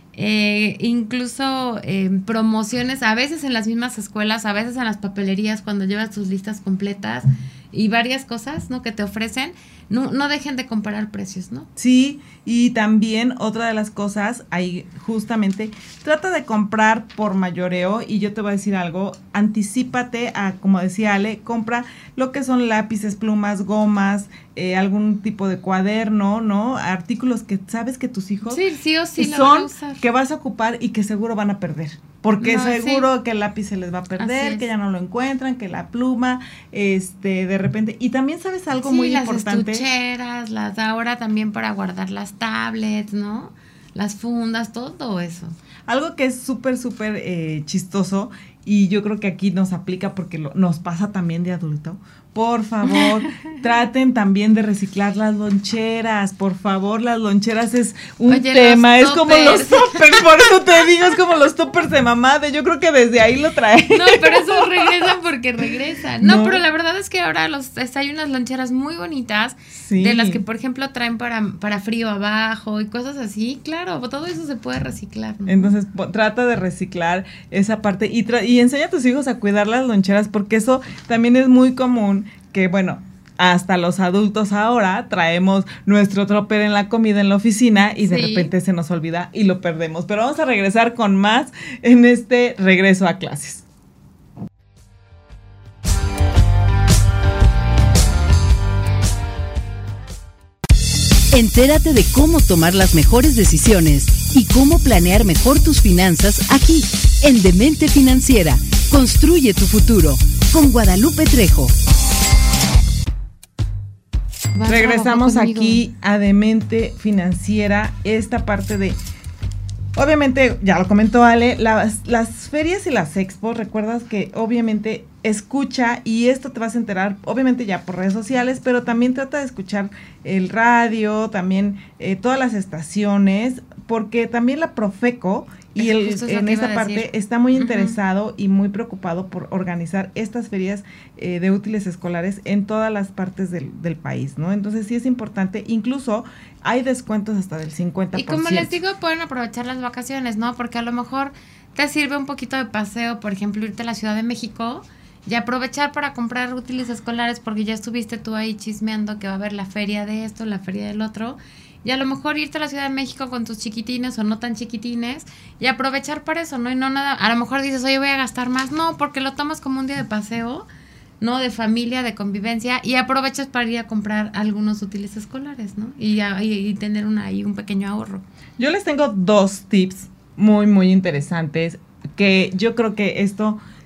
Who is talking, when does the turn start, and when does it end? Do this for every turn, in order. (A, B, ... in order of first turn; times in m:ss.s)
0:00.1-0:11.7 A
0:11.8-0:28.6 B
0:28.5-0:30.0 A
0:29.2-0:39.8 B
0:32.4-0:33.1 A
0:34.2-0:34.6 A
0:38.8-0:45.6 A
0:45.9-1:05.1 B
0:58.3-1:00.2 A
1:03.9-1:15.7 A
1:06.2-1:06.6 B
1:09.7-1:10.4 B
1:15.5-1:33.6 B
1:28.0-1:28.5 A
1:41.3-1:51.7 C
1:54.6-1:55.8 A
1:54.7-1:59.0 B
1:59.9-2:28.8 B
2:15.8-2:18.0 A
2:28.1-2:50.7 A
2:51.2-2:58.2 A
2:58.6-3:03.6 B